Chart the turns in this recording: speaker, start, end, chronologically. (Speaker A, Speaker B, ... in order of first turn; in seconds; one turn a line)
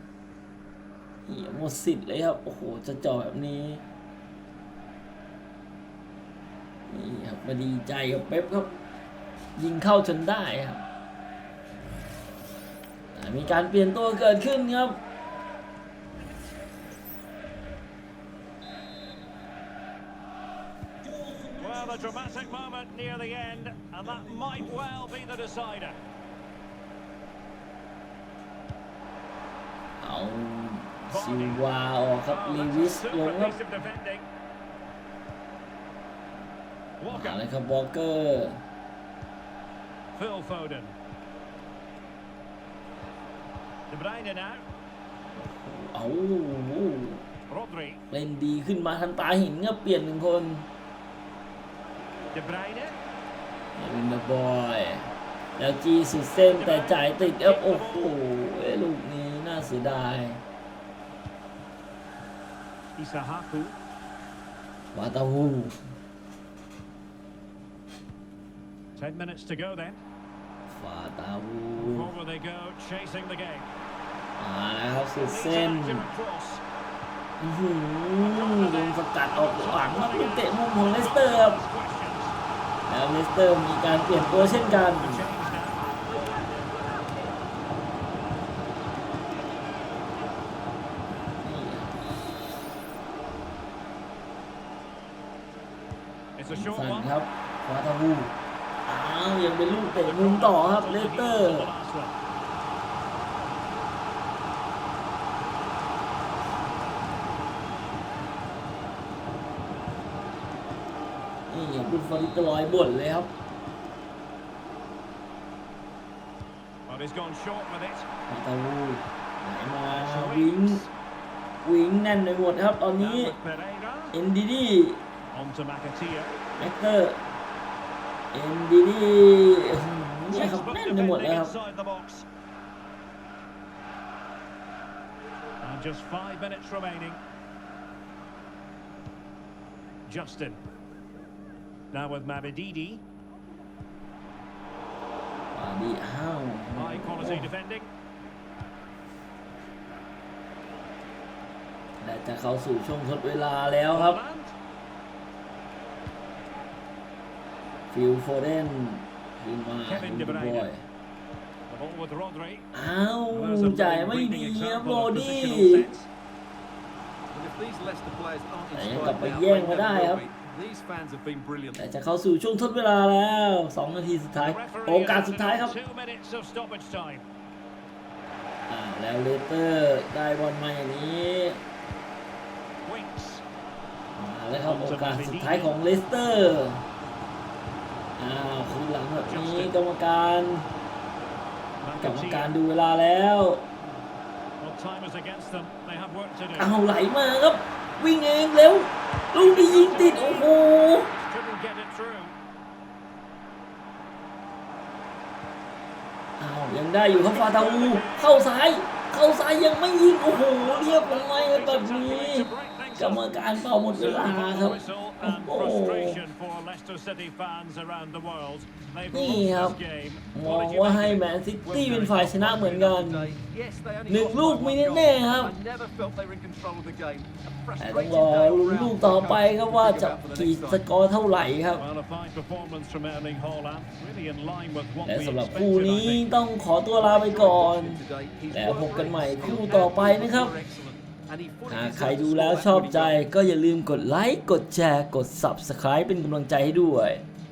Speaker A: 1.3-3.8
Speaker A: 6.9-8.8
Speaker A: 9.6-10.8
Speaker A: 13.2-15.0
Speaker B: 21.6-26.0
Speaker A: 30.0-33.6
Speaker B: 31.1-31.7
Speaker B: 32.3-34.3
Speaker B: 37.0-37.4
Speaker A: 37.1-38.6
Speaker B: 40.1-41.0
Speaker B: 43.9-44.6
Speaker A: 45.4-47.2
Speaker B: 47.5-48.0
Speaker A: 48.1-50.7
Speaker B: 52.3-53.0
Speaker A: 53.8-60.4
Speaker B: 56.4-58.2
Speaker B: 63.0-63.8
Speaker A: 64.9-65.8
Speaker B: 69.0-70.0
Speaker A: 70.7-72.1
Speaker B: 71.8-73.7
Speaker A: 74.4-76.1
Speaker B: 75.2-76.6
Speaker A: 77.4-81.6
Speaker B: 78.2-82.3
Speaker A: 82.9-85.3
Speaker B: 84.1-85.8
Speaker A: 91.4-92.0
Speaker B: 96.4-97.2
Speaker A: 96.5-98.3
Speaker A: 98.9-101.7
Speaker B: 99.8-102.2
Speaker A: 111.5-113.3
Speaker B: 116.9-118.1
Speaker A: 118.3-120.9
Speaker B: 119.9-120.9
Speaker A: 121.6-123.4
Speaker B: 123.0-124.2
Speaker A: 124.1-125.0
Speaker B: 125.3-126.3
Speaker A: 126.6-127.2
Speaker A: 128.3-131.6
Speaker B: 130.3-132.3
Speaker B: 135.6-137.2
Speaker B: 140.1-140.6
Speaker B: 141.9-143.0
Speaker A: 145.5-147.5
Speaker B: 146.8-147.9
Speaker A: 152.0-154.2
Speaker B: 153.9-154.6
Speaker A: 157.9-160.8
Speaker B: 159.9-160.7
Speaker B: 161.7-162.7
Speaker A: 162.7-165.9
Speaker B: 163.3-166.1
Speaker C: 167.3-171.9
Speaker A: 168.7-170.2
Speaker A: 171.8-175.8
Speaker B: 174.4-177.2
Speaker A: 178.7-181.6
Speaker B: 182.8-183.4
Speaker A: 184.2-186.8
Speaker B: 184.6-185.8
Speaker A: 188.2-190.7
Speaker B: 189.3-189.8
Speaker B: 191.8-192.5
Speaker A: 192.0-193.7
Speaker B: 194.6-196.7
Speaker A: 196.6-201.1
Speaker B: 199.4-202.4
Speaker A: 206.4-216.2
Speaker B: 207.1-208.5
Speaker B: 210.2-221.3
Speaker A: 219.1-219.8
Speaker A: 220.3-223.3
Speaker C: 221.7-230.8
Speaker A: 224.1-225.6
Speaker A: 227.8-231.8
Speaker B: 231.8-236.3
Speaker A: 235.0-240.6
Speaker C: 237.0-243.2
Speaker A: 241.7-247.2